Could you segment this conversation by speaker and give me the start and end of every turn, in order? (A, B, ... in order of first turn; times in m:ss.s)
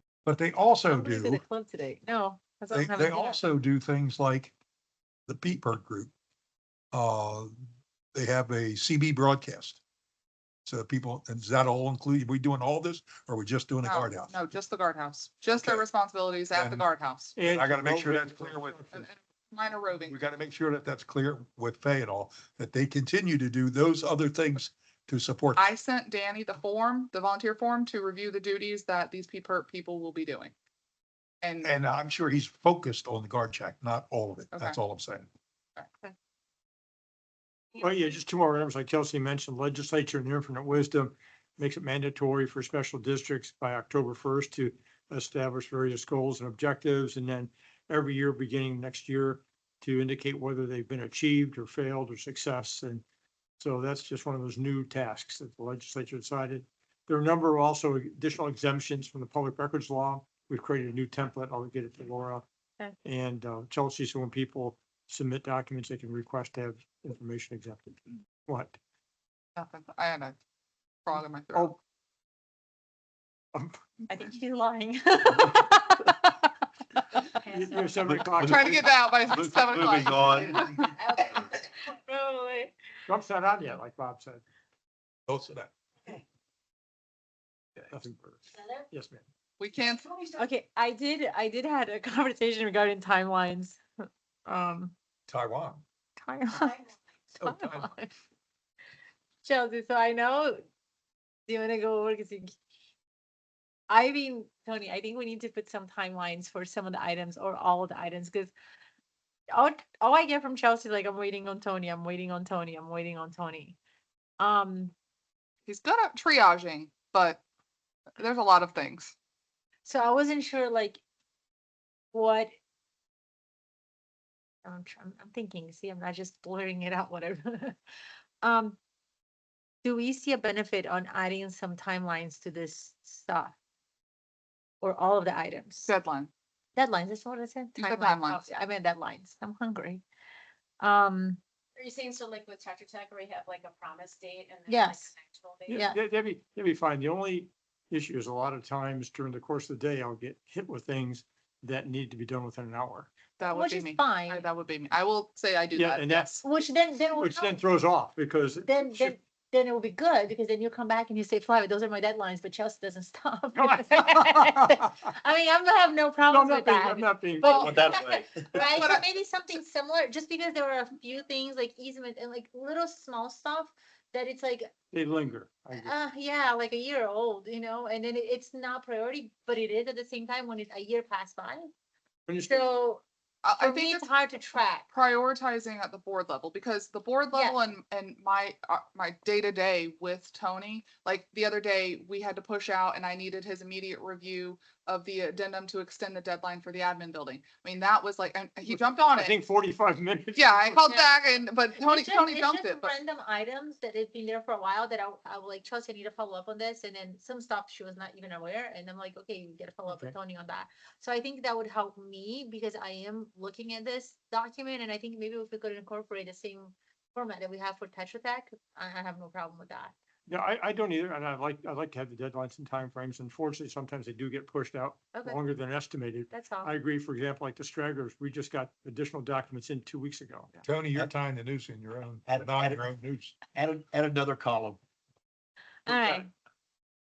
0:00.3-0:01.4 A
0:00.9-0:03.4 B
0:02.7-0:04.6 A
0:05.3-0:06.1 A
0:06.9-0:07.6 A
0:08.1-0:09.8 A
0:10.6-0:14.4 A
0:13.8-0:17.4 C
0:15.6-0:15.8 A
0:16.5-0:16.9 A
0:17.4-0:19.0 D
0:17.5-0:18.8 A
0:18.9-0:20.2 C
0:20.1-0:25.7 A
0:25.6-0:30.5 C
0:31.4-0:31.7 C
0:31.6-0:35.3 A
0:34.5-0:34.8 C
0:37.8-0:53.0 D
0:53.6-1:02.4 D
1:03.0-1:08.8 D
1:09.6-1:10.4 C
1:11.0-1:11.7 C
1:11.5-1:11.8 D
1:13.5-1:13.8 D
1:14.1-1:16.4 B
1:17.1-1:17.9 B
1:17.4-1:18.9 D
1:17.6-1:18.1 E
1:18.1-1:18.7 F
1:18.4-1:20.7 C
1:19.3-1:20.6 F
1:20.3-1:22.7 B
1:20.9-1:21.4 E
1:23.1-1:24.4 D
1:25.3-1:25.7 A
1:27.8-1:29.2 D
1:29.6-1:30.1 C
1:30.3-1:33.8 B
1:34.5-1:34.9 B
1:35.3-1:35.8 A
1:36.2-1:36.9 B
1:37.4-1:37.9 A
1:37.4-1:38.1 B
1:39.4-1:40.6 B
1:41.5-1:42.6 B
1:43.9-1:48.5 B
1:49.5-1:53.8 B
1:54.4-1:54.9 B
1:55.7-1:57.4 C
1:58.2-1:59.1 C
1:59.8-2:01.0 B
2:02.1-2:02.5 B
2:04.6-2:07.8 B
2:08.4-2:08.8 B
2:09.8-2:13.5 B
2:14.8-2:15.9 B
2:15.8-2:16.3 C
2:16.8-2:20.0 B
2:17.8-2:18.5 C
2:20.8-2:21.4 B
2:21.8-2:25.8 E
2:24.7-2:25.1 B
2:25.7-2:33.1 D
2:33.4-2:36.4 C
2:33.5-2:34.4 B
2:35.7-2:36.4 D
2:36.4-2:37.6 B
2:37.2-2:39.2 D
2:38.6-2:54.7 B
2:43.6-2:44.6 D
2:46.3-2:47.7 D
2:47.4-2:47.9 C
2:47.6-2:48.8 F
2:48.6-2:49.0 C
2:54.9-2:55.9 D
2:55.7-3:01.7 B
3:02.3-3:02.7 D
3:02.5-3:03.0 B
3:03.4-3:04.1 C
3:03.6-3:04.9 B
3:04.9-3:19.4 C
3:07.3-3:07.6 B
3:18.6-3:20.7 D
3:20.4-3:23.0 C
3:20.9-3:21.1 B
3:21.8-3:39.9 B
3:29.9-3:30.1 D
3:40.3-3:50.5 D
3:45.1-3:45.4 B
3:46.3-3:46.7 B
3:50.6-3:53.4 A
3:52.3-3:52.8 F
3:53.6-3:54.8 F
3:55.9-3:56.3 B